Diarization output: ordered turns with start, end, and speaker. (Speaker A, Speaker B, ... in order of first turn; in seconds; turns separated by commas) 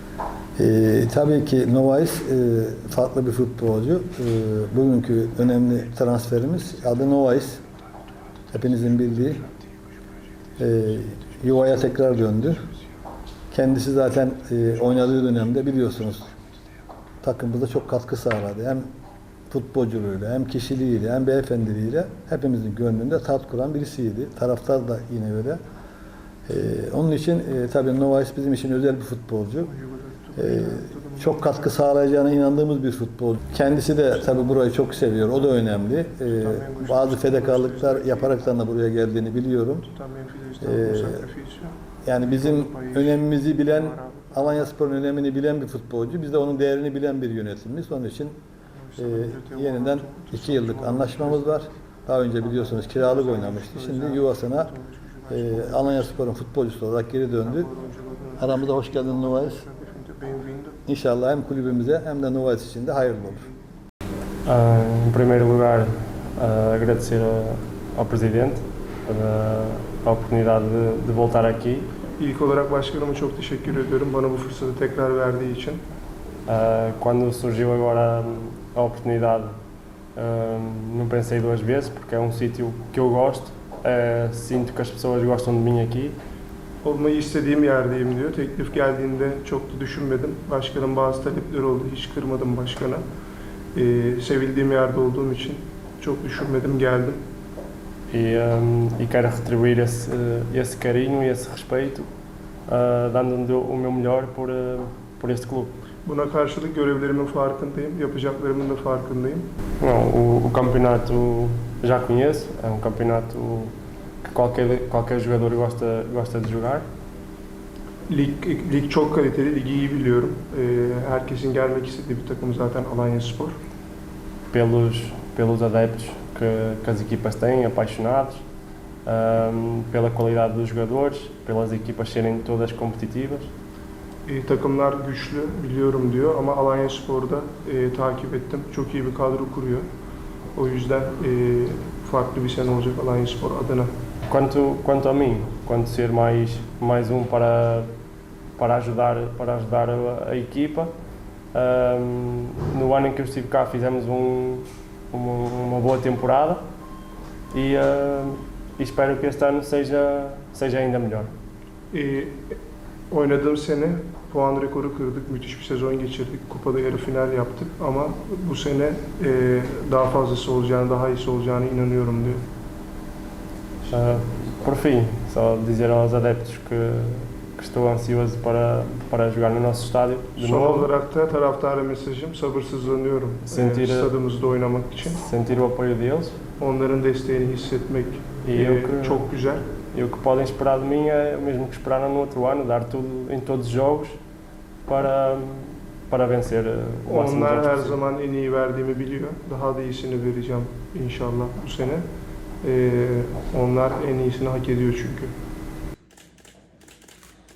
Speaker A: 0.6-7.6, Speaker A: 8.5-9.5, Speaker A: 10.6-12.7, Speaker A: 13.5-16.3, Speaker A: 17.2-18.9, Speaker A: 19.5-25.6, Speaker A: 26.5-29.7, Speaker B: 29.6-31.7, Speaker A: 30.4-39.9, Speaker B: 36.3-38.4, Speaker B: 39.9-44.7, Speaker A: 40.6-41.2, Speaker A: 42.0-48.4, Speaker B: 48.8-51.6, Speaker A: 49.0-54.7, Speaker B: 52.5-56.2, Speaker A: 55.3-57.7, Speaker B: 57.4-60.8, Speaker A: 58.4-59.6, Speaker A: 60.9-63.5, Speaker C: 64.5-71.9, Speaker B: 72.2-75.8, Speaker C: 76.5-79.5, Speaker C: 80.2-86.2, Speaker B: 86.8-93.0, Speaker B: 93.7-97.2, Speaker C: 98.1-102.1, Speaker C: 102.7-105.8, Speaker B: 106.1-109.5, Speaker C: 109.8-113.7, Speaker C: 114.2-116.8, Speaker B: 118.1-123.6, Speaker C: 124.5-128.4, Speaker C: 129.1-133.5, Speaker B: 134.3-139.9, Speaker B: 140.6-143.9, Speaker C: 144.3-147.9, Speaker C: 148.6-150.9, Speaker C: 151.5-156.6, Speaker C: 157.5-161.3, Speaker B: 161.9-162.6, Speaker B: 163.1-172.4, Speaker C: 173.8-180.9, Speaker B: 180.4-185.2, Speaker C: 183.4-184.1, Speaker C: 185.0-186.4, Speaker B: 186.6-189.6, Speaker C: 188.4-189.3, Speaker C: 189.9-194.2, Speaker C: 194.9-197.9, Speaker B: 197.1-202.1, Speaker B: 202.6-205.3